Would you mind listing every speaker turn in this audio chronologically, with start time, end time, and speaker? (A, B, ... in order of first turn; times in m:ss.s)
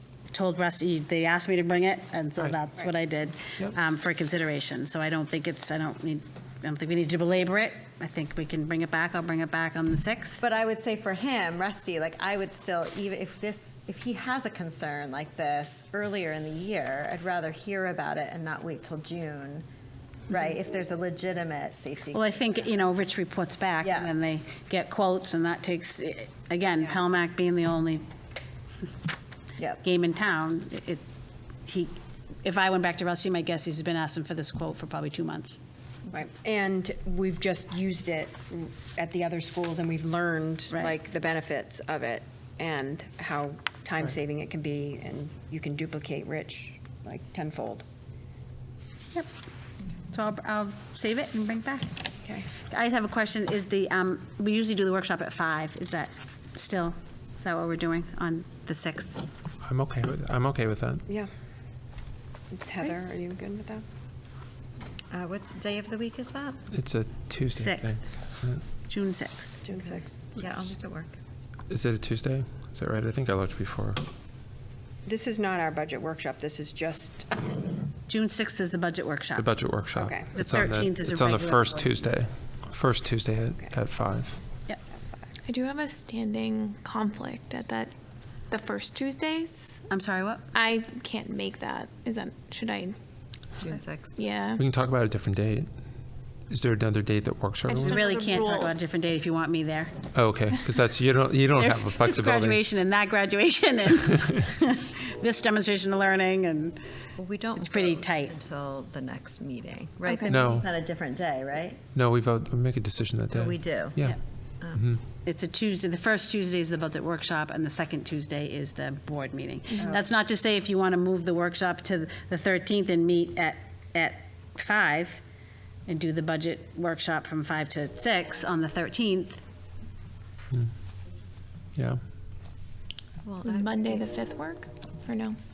0:00.3-0:10.4 A
0:10.4-0:19.6 B
0:20.3-0:22.7 B
0:22.1-0:28.0 A
0:23.8-0:24.1 B
0:29.8-0:31.0 A
0:31.6-0:35.6 A
0:36.1-0:47.8 C
0:50.1-0:51.9 A
0:52.2-0:52.5 C
0:52.7-0:59.2 A
0:59.6-1:01.0 D
1:02.5-1:03.8 C
1:05.1-1:06.7 B
1:06.7-1:08.6 D
1:07.6-1:09.5 A
1:09.6-1:10.3 C
1:09.7-1:11.2 B
1:11.7-1:14.0 D
1:15.0-1:17.5 C
1:18.1-1:19.6 A
1:19.4-1:24.4 D
1:19.9-1:20.3 C
1:20.3-1:22.1 A
1:25.4-1:27.9 E
1:28.5-1:29.8 E
1:29.9-1:30.5 A
1:30.5-1:33.0 E
1:33.6-1:34.2 B
1:33.6-1:34.6 E
1:34.6-1:35.7 D
1:36.5-1:37.9 D
1:37.7-1:39.9 A
1:37.7-1:38.9 E
1:40.1-1:42.6 D
1:41.6-1:47.0 A
1:47.2-1:51.8 B
1:47.5-1:48.3 A
1:50.0-1:50.6 E
1:51.9-1:53.6 D
1:53.3-1:54.8 B
1:55.2-2:05.2 A
2:05.9-2:09.4 A
2:11.7-2:12.0 D
2:13.2-2:14.0 B
2:13.4-2:15.4 E